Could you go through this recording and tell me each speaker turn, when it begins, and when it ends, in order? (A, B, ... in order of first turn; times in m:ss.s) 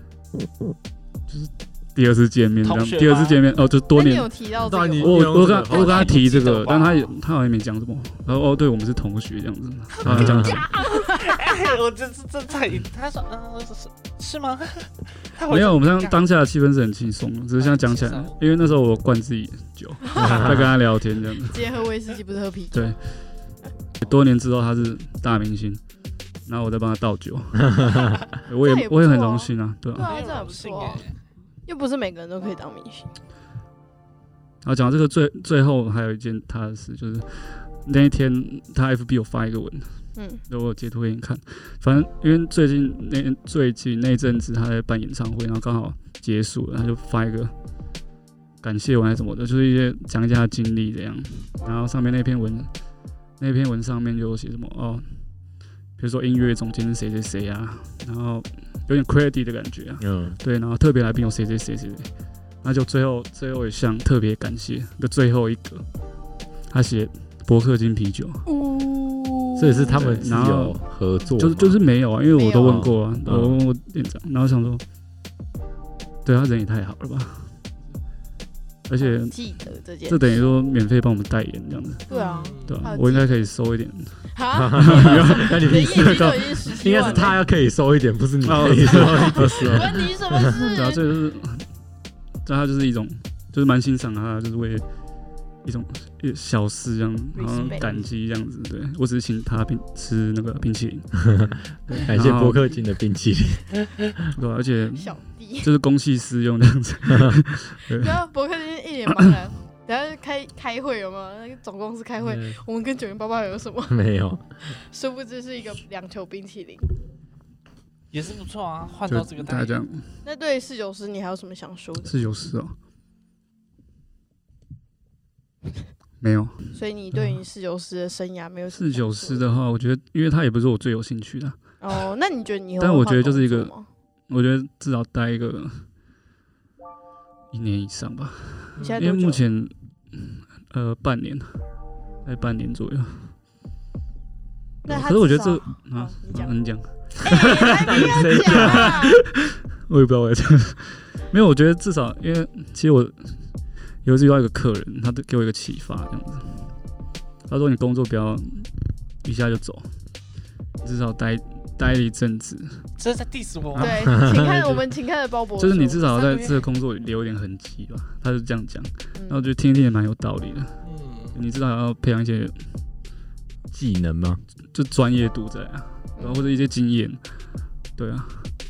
0:01.3-0:04.3 A
0:02.6-0:03.4 B
0:03.9-0:05.4 C
0:04.6-0:06.2 D
0:05.0-0:10.7 A
0:05.7-0:07.1 B
0:09.9-0:16.2 B
0:10.0-0:10.6 D
0:10.8-0:11.4 C
0:15.5-0:21.6 A
0:17.6-0:18.4 B
0:20.1-0:20.4 C
0:20.2-0:20.7 D
0:21.5-0:22.9 C
0:24.0-0:25.8 A
0:26.4-0:30.1 A
0:28.6-0:31.0 C
0:30.0-0:31.2 B
0:31.6-0:33.1 C
0:34.6-0:39.9 A
0:40.2-0:40.4 C
0:40.5-0:47.5 A
0:48.6-0:52.7 A
0:53.4-0:55.1 A
0:56.0-1:02.1 A
1:00.0-1:00.4 D
1:02.6-1:05.8 A
1:06.7-1:08.4 A
1:08.4-1:10.0 C
1:09.6-1:11.8 D
1:09.9-1:10.8 A
1:11.3-1:14.8 A
1:12.3-1:12.8 C
1:12.6-1:13.6 D
1:16.2-1:17.5 A
1:18.9-1:19.4 A
1:19.0-1:20.4 C
1:20.0-1:22.0 A
1:22.1-1:22.9 B
1:22.1-1:23.5 C
1:22.6-1:27.4 A
1:24.3-1:27.4 C
1:24.5-1:30.6 D
1:28.4-1:31.6 A
1:28.9-1:31.0 C
1:32.4-1:34.8 A
1:35.6-1:41.3 A
1:37.3-1:37.9 C
1:37.6-1:38.1 B
1:41.9-1:42.7 A
1:42.0-1:43.7 D
1:44.3-1:48.2 A
1:45.0-1:45.7 C
1:47.9-1:54.0 C
1:53.9-1:54.4 D
1:54.9-1:56.9 C
1:58.1-1:59.8 B
1:59.1-2:00.0 A
2:00.2-2:02.2 C
2:02.0-2:02.7 A
2:06.2-2:07.4 A
2:06.7-2:09.6 C
2:08.7-2:11.6 A
2:11.8-2:13.9 C
2:12.8-2:13.7 A
2:14.3-2:15.8 A
2:17.5-2:21.6 A
2:18.8-2:19.1 B
2:18.8-2:19.4 C
2:22.2-2:23.3 A
2:24.8-2:26.5 C
2:24.9-2:33.4 A
2:27.2-2:29.0 D
2:27.2-2:29.2 C
2:34.0-2:36.7 A
2:37.5-2:38.7 A
2:39.2-2:39.9 A
2:40.8-2:42.9 A
2:43.0-2:44.1 B
2:43.7-2:44.8 A
2:43.8-2:46.1 C
2:44.1-2:44.5 D
2:45.6-2:50.8 A
2:46.0-2:46.6 B
2:49.2-2:49.4 C
2:50.8-2:51.4 B
2:51.3-2:52.6 A
2:53.7-2:54.4 D
2:54.7-2:57.2 A
2:56.2-2:56.4 C
2:58.0-2:58.5 A